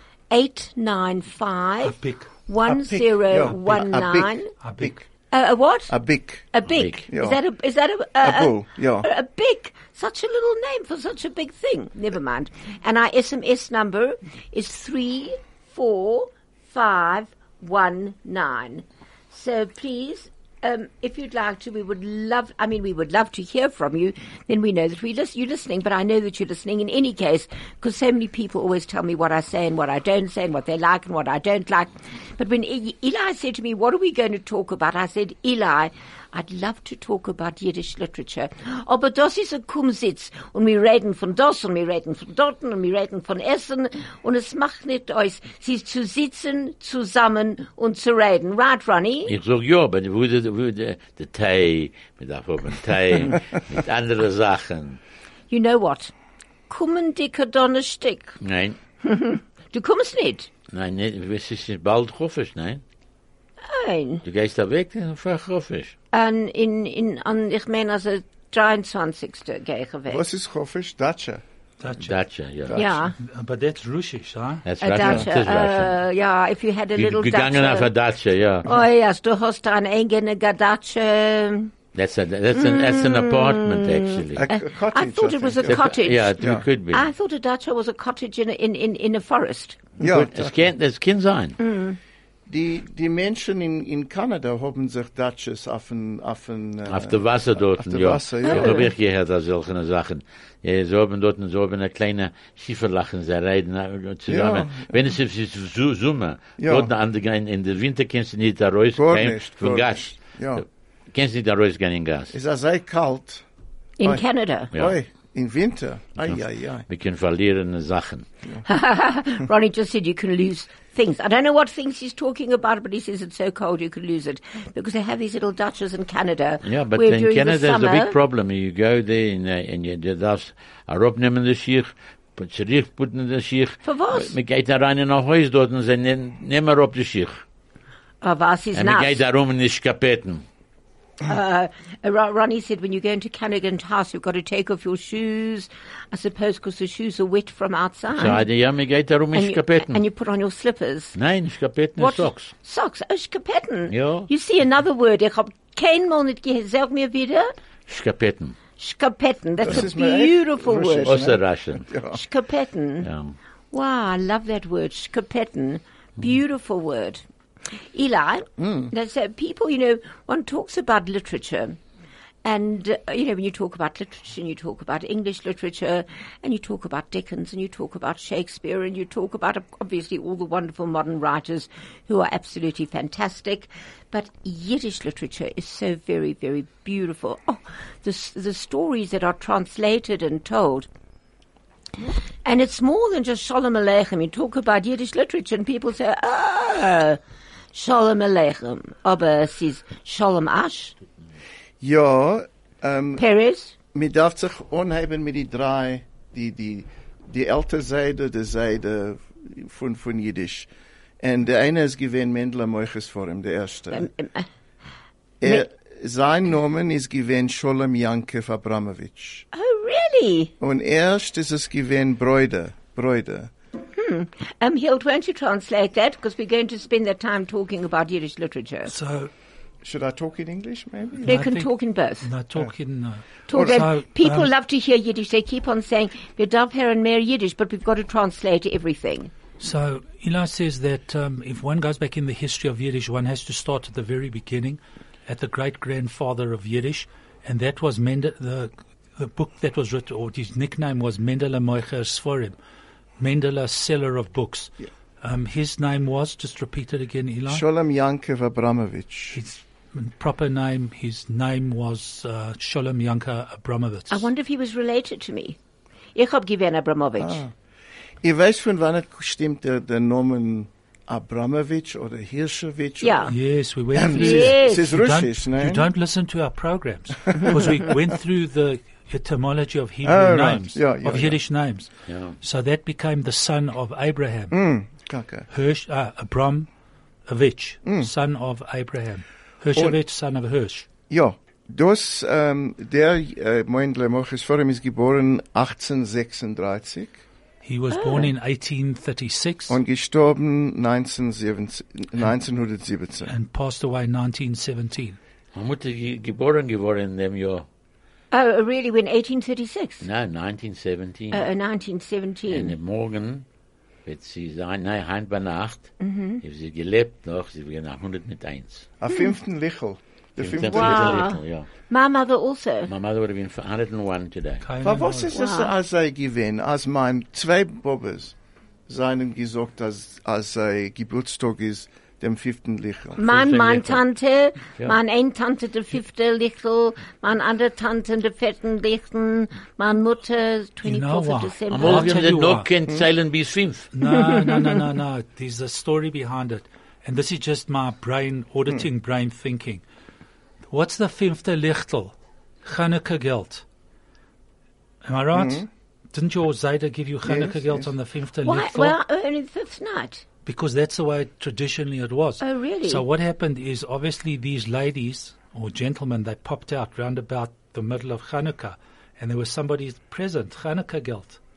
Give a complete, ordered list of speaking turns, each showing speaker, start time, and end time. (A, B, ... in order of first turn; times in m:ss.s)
0:00.3-0:04.5 A
0:01.8-0:02.3 B
0:02.6-0:05.0 C
0:04.6-0:04.9 B
0:05.3-0:05.9 A
0:05.9-0:06.5 C
0:06.5-0:49.3 A
0:06.7-0:07.0 D
0:07.1-0:07.4 C
0:08.2-0:09.1 C
0:49.3-0:55.0 D
0:55.5-0:56.1 A
0:56.7-0:58.4 A
0:58.4-0:58.8 D
0:59.0-1:00.5 A
1:00.7-1:02.8 D
1:03.6-1:04.2 A
1:04.2-1:05.9 D
1:06.1-1:10.2 A
1:10.1-1:11.4 C
1:11.8-1:12.2 B
1:12.0-1:12.8 D
1:12.7-1:13.1 C
1:12.7-1:13.1 A
1:13.2-1:14.6 B
1:14.6-1:15.9 D
1:14.8-1:17.9 A
1:15.0-1:15.3 C
1:17.0-1:18.7 D
1:18.6-1:21.7 A
1:21.9-1:24.4 D
1:22.5-1:26.4 A
1:24.3-1:26.6 C
1:25.6-1:27.1 D
1:26.9-1:29.8 A
1:30.0-1:30.6 C
1:30.0-1:31.6 D
1:31.6-1:32.0 A
1:32.5-1:38.9 C
1:36.9-1:52.3 D
1:38.4-1:38.9 A
1:44.3-1:45.1 C
1:46.6-1:46.9 C
1:49.0-1:50.6 C
1:52.3-1:53.4 C
1:54.0-1:54.7 A
1:54.0-1:56.8 C
1:56.2-1:58.2 D
1:58.6-2:08.2 A
2:06.6-2:17.4 D
2:13.8-2:14.3 A
2:18.2-2:19.2 A
2:18.7-2:20.4 D
2:21.2-2:28.4 A
2:28.1-2:30.0 D
2:29.3-2:31.2 A
2:31.1-2:32.5 D
2:32.0-2:37.5 A
2:33.9-2:34.3 D
2:37.9-2:38.6 D
2:38.8-2:41.2 A
2:39.6-2:42.2 C
2:41.0-2:41.9 D
2:42.1-2:43.1 A
2:43.0-2:43.3 D
2:43.7-2:47.2 A
2:47.9-2:51.8 A
2:48.6-2:48.9 C
2:52.4-3:10.9 A
3:12.4-3:17.2 A
3:17.7-3:21.0 A
3:21.8-3:23.2 C
3:23.2-3:23.7 A
3:23.9-3:30.7 C
3:31.2-3:34.1 C
3:33.9-3:34.5 A
3:35.4-3:39.4 C
3:39.5-3:40.5 A
3:40.6-3:43.5 C
3:43.9-3:48.9 A
3:48.9-3:49.3 B
3:49.8-3:51.4 C
3:51.2-3:52.3 A
3:51.2-3:54.5 B
3:53.5-3:59.3 A
3:53.5-3:53.8 C
3:59.6-4:12.6 B
4:13.2-4:17.6 B
4:17.5-4:19.4 C
4:19.3-4:24.3 B
4:24.1-4:25.6 A
4:26.1-4:27.4 A
4:27.2-4:27.5 C
4:28.2-4:33.4 C
4:33.0-4:33.3 A
4:33.3-4:41.9 B
4:33.9-4:35.9 C
4:34.1-4:34.9 A
4:37.3-4:37.9 C
4:40.0-4:41.4 C
4:42.1-4:42.4 D
4:42.4-4:44.6 B
4:44.5-4:45.5 C
4:45.5-4:46.7 B
4:47.3-4:50.9 B
4:47.8-4:48.1 C
4:49.7-4:50.0 C
4:51.1-4:57.2 C
4:57.6-4:59.8 B
4:57.9-4:58.3 A
4:59.7-5:03.3 C
5:03.3-5:05.2 B
5:05.5-5:07.6 D
5:08.3-5:10.0 A
5:10.0-5:11.4 D
5:11.3-5:12.8 A
5:12.5-5:13.4 D
5:14.0-5:18.9 D
5:16.0-5:16.4 A
5:19.0-5:21.3 C
5:20.4-5:21.7 D
5:20.6-5:22.9 A
5:22.9-5:24.6 D
5:24.6-5:25.3 B
5:24.8-5:28.3 C
5:25.3-5:25.7 A
5:28.9-5:33.2 C
5:33.2-5:42.2 A
5:33.2-5:34.0 D
5:40.8-5:42.7 B
5:41.7-5:43.9 D
5:43.9-5:49.8 B
5:44.1-5:44.8 A
5:50.7-5:53.6 B
5:55.0-5:59.0 B
5:55.3-5:55.7 C
5:57.2-5:57.9 C
5:58.4-6:00.2 A
6:00.4-6:11.4 B
6:02.4-6:03.0 A